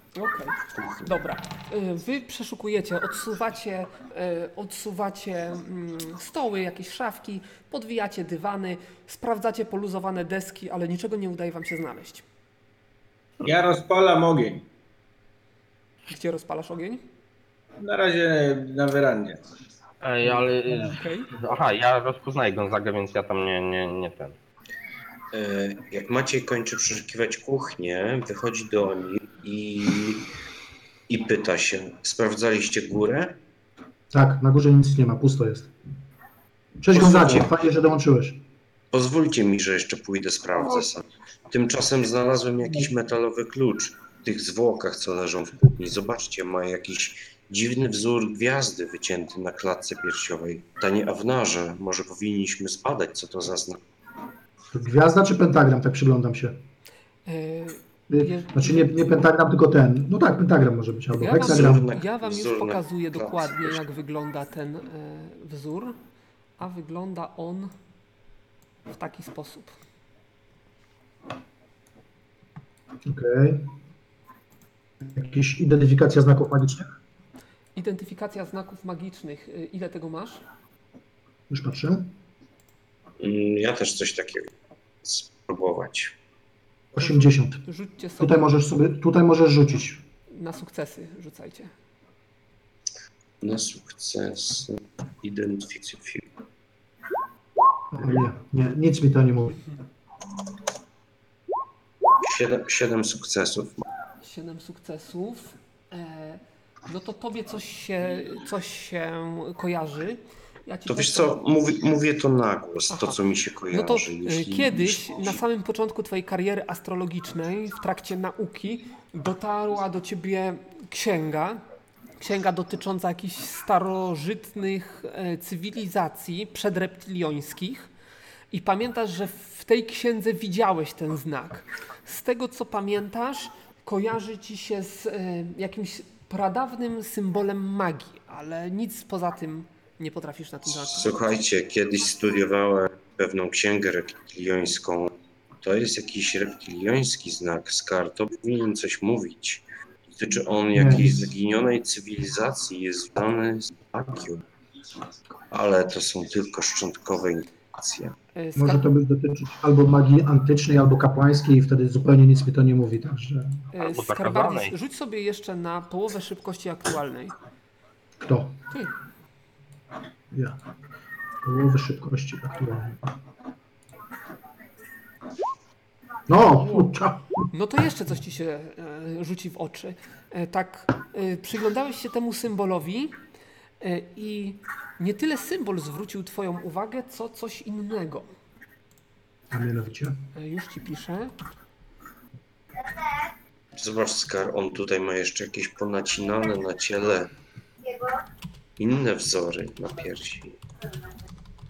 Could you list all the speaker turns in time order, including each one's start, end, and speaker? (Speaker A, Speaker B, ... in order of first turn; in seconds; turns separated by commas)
Speaker A: 0.1-12.2, Speaker B: 0.7-1.1, Speaker C: 13.4-14.7, Speaker A: 16.1-17.0, Speaker C: 17.8-19.4, Speaker D: 20.0-24.3, Speaker A: 20.7-21.3, Speaker B: 25.3-30.3, Speaker B: 31.1-33.4, Speaker E: 34.1-35.7, Speaker E: 36.8-38.4, Speaker B: 36.9-37.5, Speaker B: 38.9-53.8, Speaker E: 54.7-56.6, Speaker A: 57.2-58.9, Speaker E: 58.1-61.9, Speaker A: 61.1-66.0, Speaker B: 61.3-63.8, Speaker A: 66.6-67.7, Speaker A: 68.9-69.7, Speaker E: 73.0-73.7, Speaker E: 75.0-76.9, Speaker A: 77.8-80.4, Speaker E: 81.5-82.1, Speaker B: 83.2-84.5, Speaker B: 85.0-86.1, Speaker E: 86.9-87.6, Speaker A: 87.0-88.5, Speaker E: 88.2-90.0, Speaker A: 90.3-91.7, Speaker B: 93.4-96.3, Speaker E: 97.9-99.6, Speaker B: 102.2-103.8, Speaker A: 104.2-111.4, Speaker B: 110.9-115.4, Speaker A: 112.9-113.2, Speaker A: 113.7-121.6, Speaker A: 122.2-127.9, Speaker A: 128.5-141.1, Speaker B: 140.8-154.4, Speaker E: 150.7-151.3, Speaker B: 155.5-158.1, Speaker A: 158.3-158.9, Speaker E: 158.6-163.6, Speaker A: 163.7-167.3, Speaker D: 163.8-164.7, Speaker E: 168.2-168.6, Speaker E: 170.3-170.6, Speaker E: 171.4-173.0, Speaker E: 176.3-177.4, Speaker A: 176.6-176.9, Speaker A: 177.5-183.2, Speaker A: 183.8-188.3, Speaker E: 189.5-190.2, Speaker A: 190.3-191.3, Speaker B: 193.7-197.3, Speaker B: 198.8-200.6